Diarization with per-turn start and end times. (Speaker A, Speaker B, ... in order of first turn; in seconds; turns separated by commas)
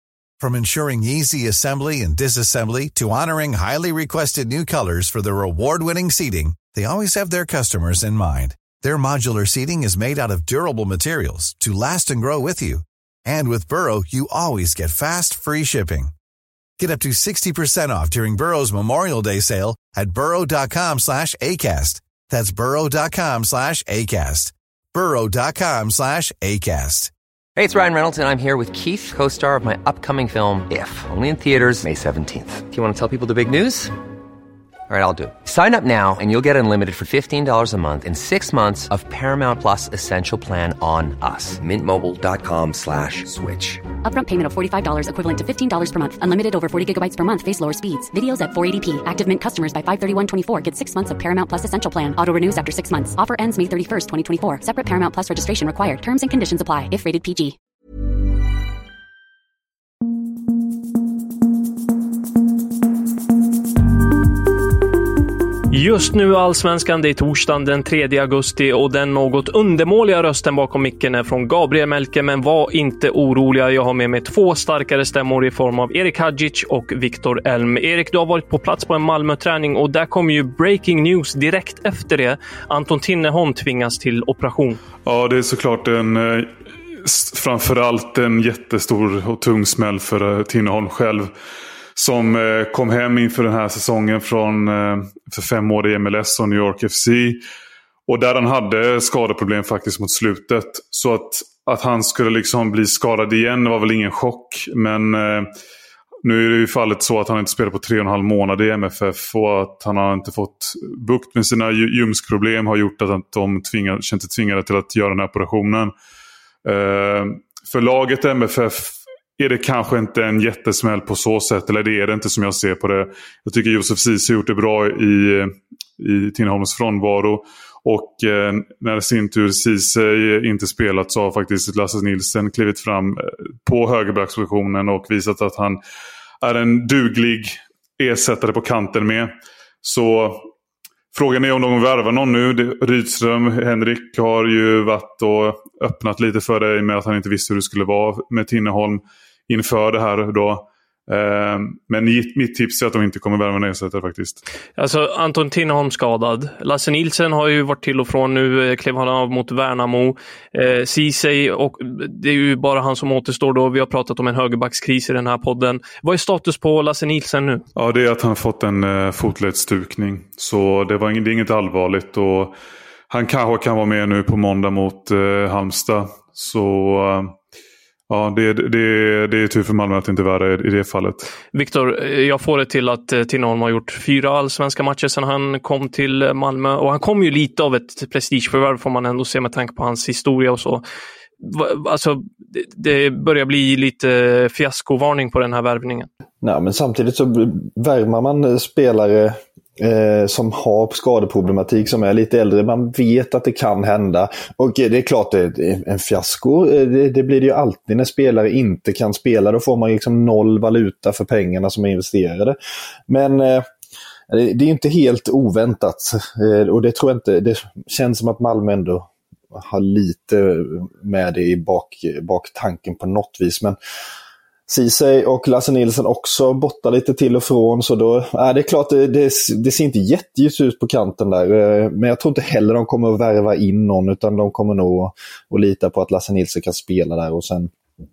Speaker A: 0.4-16.1, Speaker A: 16.8-27.1, Speaker B: 27.6-33.9, Speaker B: 34.9-43.2, Speaker C: 44.0-57.5, Speaker D: 65.7-84.8, Speaker E: 85.0-86.5, Speaker E: 87.0-91.3, Speaker E: 92.0-97.4, Speaker E: 98.1-105.5, Speaker E: 106.2-115.9, Speaker E: 116.7-135.8, Speaker E: 136.4-139.3, Speaker E: 139.8-140.5, Speaker E: 141.1-154.4, Speaker D: 154.8-167.6, Speaker E: 167.8-172.6, Speaker E: 173.1-177.3, Speaker E: 178.1-181.3, Speaker D: 181.5-190.8, Speaker D: 191.4-196.1, Speaker F: 196.4-212.6, Speaker F: 213.1-213.7, Speaker F: 214.3-223.8, Speaker F: 224.7-237.7